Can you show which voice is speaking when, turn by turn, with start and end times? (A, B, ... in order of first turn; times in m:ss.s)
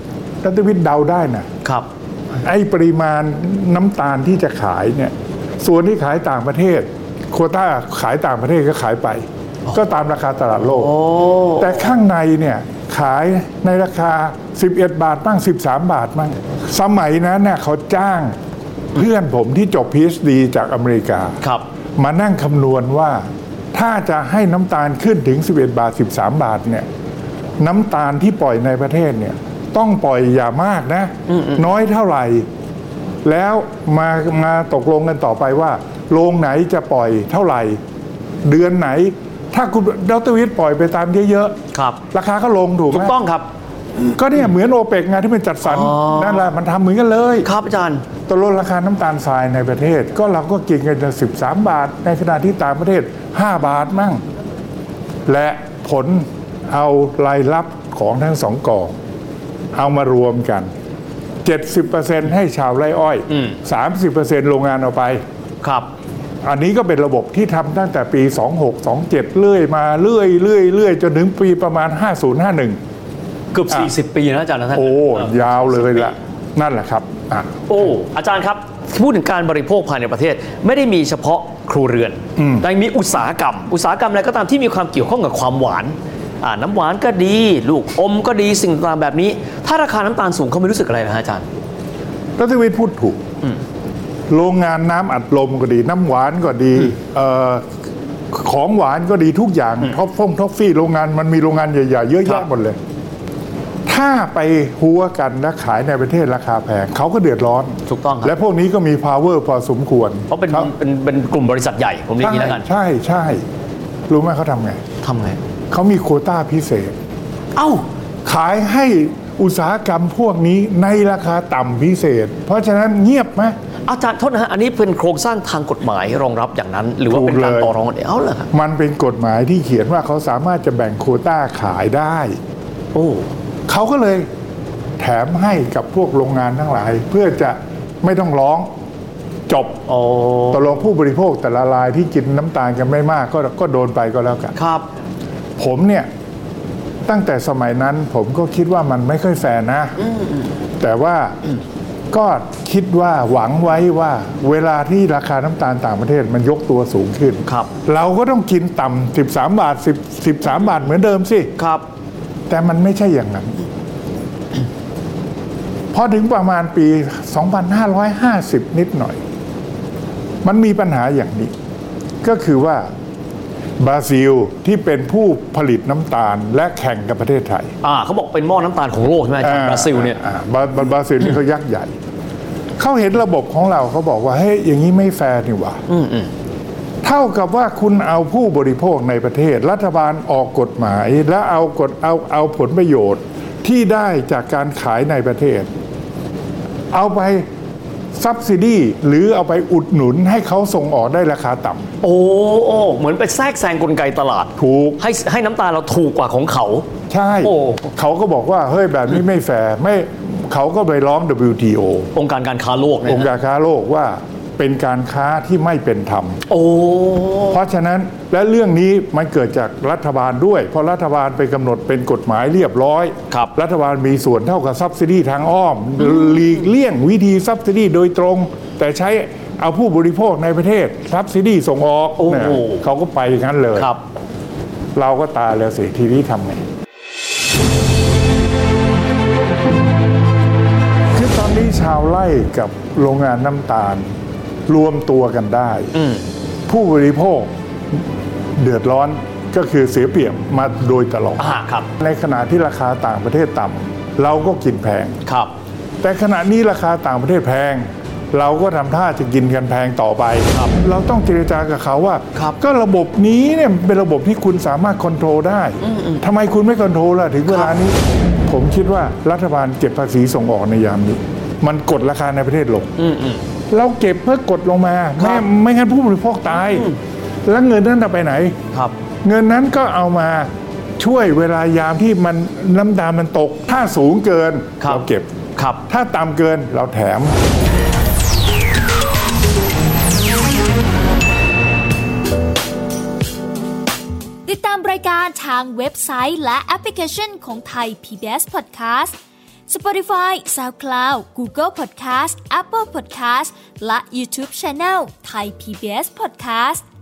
0:00.4-0:01.5 A
0:02.4-0:10.9 A
0:10.6-0:11.8 B
0:11.6-0:18.4 A
0:18.9-0:21.4 A
0:22.0-0:23.2 A
0:23.7-0:26.9 A
0:27.6-0:32.5 A
0:31.3-0:31.6 B
0:33.2-0:37.8 A
0:38.4-0:41.5 A
0:41.7-0:42.0 B
0:42.1-0:43.1 A
0:42.9-0:43.5 B
0:44.1-0:47.5 A
0:45.6-0:46.4 B
0:47.4-0:48.0 B
0:48.3-0:54.2 A
0:55.3-0:59.0 A
0:59.8-1:00.7 A
1:01.4-1:05.2 A
1:03.3-1:03.6 B
1:05.6-1:05.9 B
1:06.4-1:12.8 A
1:13.5-1:16.1 B
1:14.7-1:17.6 A
1:17.7-1:31.5 B
1:22.4-1:22.6 A
1:32.4-1:33.2 A
1:34.3-1:37.6 A
1:38.3-1:42.8 A
1:43.9-1:50.7 A
1:47.9-1:48.3 B
1:50.3-1:52.6 B
1:52.2-1:53.4 A
1:54.1-1:54.8 A
1:55.0-1:55.4 B
1:55.7-1:57.0 A
1:57.5-1:57.8 B
1:58.2-2:03.5 A
2:03.9-2:08.5 B
2:07.1-2:07.7 A
2:08.5-2:12.4 A
2:12.9-2:13.3 B
2:13.7-2:14.3 A
2:15.0-2:18.7 A
2:19.5-2:19.8 A
2:19.9-2:20.8 B
2:20.5-2:24.5 A
2:24.5-2:24.9 B
2:25.6-2:26.1 A
2:27.1-2:30.0 A
2:30.8-2:31.4 A
2:32.1-2:41.5 A
2:37.5-2:37.7 B
2:41.6-2:41.8 B
2:42.5-2:43.6 A
2:45.9-2:49.2 A
2:50.4-2:51.5 A
2:52.2-2:52.9 A
2:53.8-2:57.7 A
2:57.8-3:00.2 B
2:59.4-3:01.9 A
3:02.8-3:05.8 A
3:05.9-3:06.3 B
3:07.0-3:15.7 A
3:16.9-3:17.4 A
3:18.1-3:21.9 A
3:22.0-3:26.9 B
3:24.6-3:25.0 A
3:27.1-3:32.1 A
3:27.4-3:27.8 B
3:32.1-3:33.3 B
3:33.0-3:36.4 A
3:36.5-3:37.6 B
3:37.5-3:53.9 A
3:52.2-3:52.8 B
3:55.0-3:56.6 A
4:01.1-4:04.1 A
4:04.7-4:06.0 A
4:06.0-4:06.2 B
4:06.7-4:07.5 A
4:08.6-4:15.2 A
4:11.4-4:11.9 B
4:15.2-4:15.5 B
4:16.0-4:28.0 A
4:25.8-4:26.2 B
4:28.5-4:32.9 A
4:33.0-4:33.4 B
4:33.7-4:36.9 A
4:37.5-4:38.6 A
4:39.2-4:45.3 A
4:44.8-4:45.0 B
4:45.6-4:45.8 B
4:45.9-4:47.4 A
4:54.5-4:59.2 C
4:59.7-5:06.8 C